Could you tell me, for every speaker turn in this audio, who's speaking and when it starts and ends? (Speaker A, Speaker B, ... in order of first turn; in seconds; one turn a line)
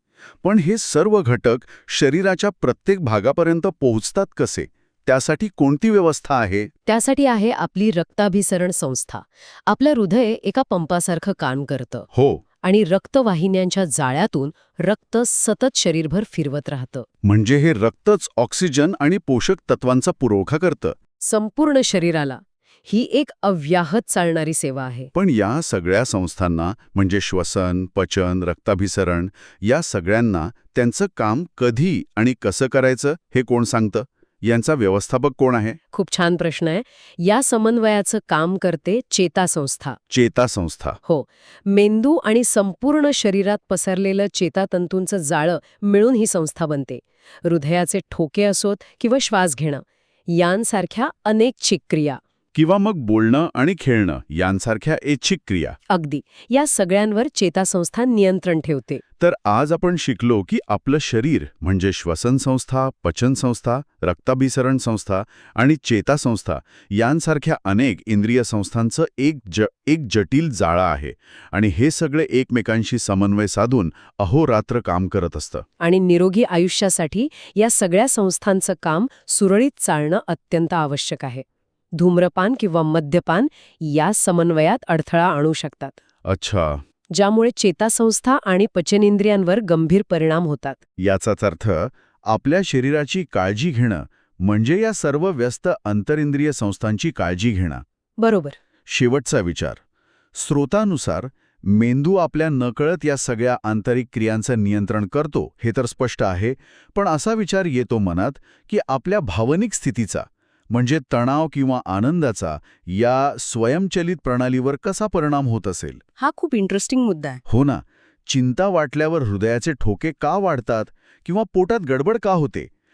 Speaker A: 0.4-6.7
Speaker B: 6.8-12.1
Speaker A: 12.1-12.4
Speaker B: 12.6-17.1
Speaker A: 17.2-20.9
Speaker B: 21.2-25.1
Speaker A: 25.1-35.8
Speaker B: 35.9-40.0
Speaker A: 40.1-41.0
Speaker B: 41.0-52.2
Speaker A: 52.5-55.8
Speaker B: 55.9-59.0
Speaker A: 59.2-75.6
Speaker B: 75.8-81.4
Speaker B: 81.9-86.0
Speaker A: 86.2-86.8
Speaker B: 87.1-90.8
Speaker A: 91.0-97.8
Speaker B: 98.2-98.6
Speaker A: 98.9-99.8
Speaker A: 100.3-116.0
Speaker B: 116.2-117.4
Speaker A: 117.5-122.7